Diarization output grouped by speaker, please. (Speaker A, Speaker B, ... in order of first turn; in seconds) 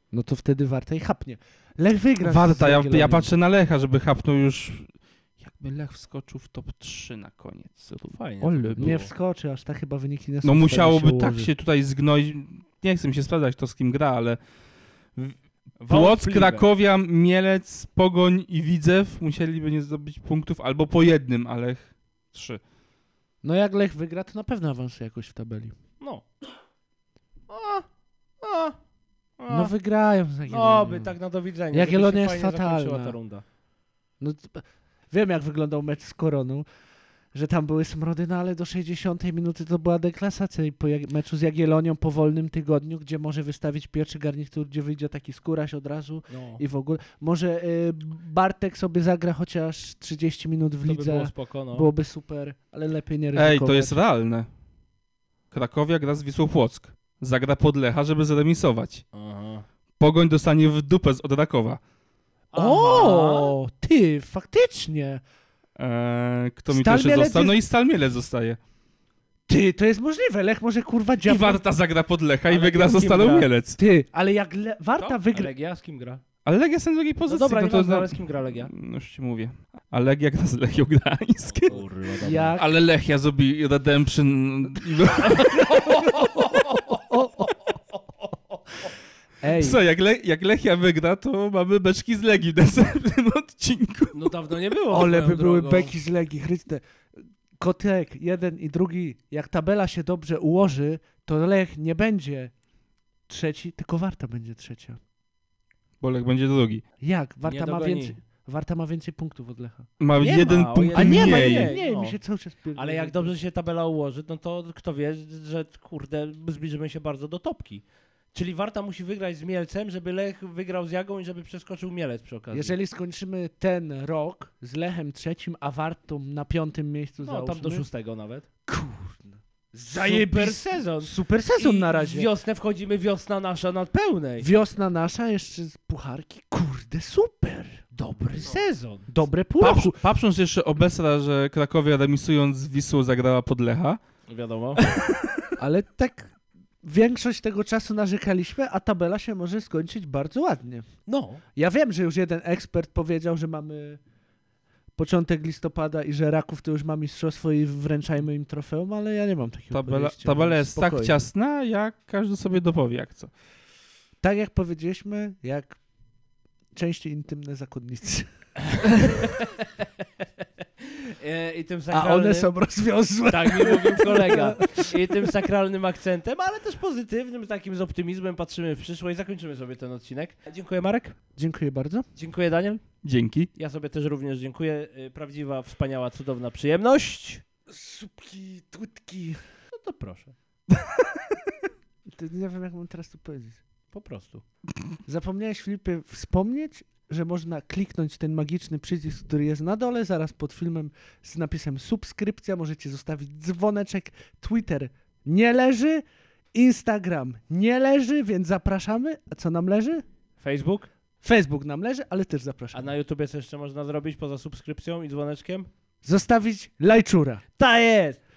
Speaker A: 0.1-3.3, 8.8-11.5, 23.4-25.8, 29.5-31.1, 31.7-33.2, 34.2-36.7, 37.3-54.0, 62.6-65.2, 66.7-67.6, 69.5-71.6, 73.8-75.5, 82.2-82.7, 86.9-87.5, 89.4-89.8, 94.9-96.8, 97.5-102.5, 103.3-105.0, 107.0-109.9, 110.9-113.3, 122.5-127.9, 128.7-132.3, 134.4-137.8, 139.1-140.0, 145.6-150.9, 151.6-154.0, 155.0-161.2, 164.2-165.8, 166.7-168.3, 171.9-175.1, 181.4-182.1, 187.7-189.4, 192.1-193.6, 195.1-206.0, 206.5-210.1, 211.2-212.9, 216.0-217.4
Speaker B: 2.2-9.0, 10.4-14.4, 15.9-22.6, 53.4-54.5, 55.5-59.0, 60.0-61.8, 65.8-68.6, 71.2-73.8, 76.5-81.8, 82.6-86.6, 89.5-94.3, 106.0-106.8, 110.0-111.8, 139.6-144.0, 144.8-145.1, 159.7-163.3, 183.0-183.5
Speaker C: 8.1-9.1, 15.8-16.7, 26.0-26.3, 27.5-27.9, 28.4-28.8, 29.4-29.7, 30.5-33.4, 46.3-46.6, 50.9-51.9, 59.1-59.6, 62.5-63.6, 72.5-73.5, 75.3-76.2, 77.3-78.7, 81.5-82.6, 85.3-87.0, 94.1-96.0, 107.5-108.2, 110.2-112.2, 112.8-122.8, 127.2-128.5, 129.9-134.5, 137.9-139.1, 144.3-144.9, 151.1-151.4, 168.7-169.9, 170.8-172.5, 173.3-181.2, 182.2-182.8, 183.6-187.4, 189.7-190.3, 193.9-194.4, 210.4-210.9, 212.7-215.7, 217.6-218.2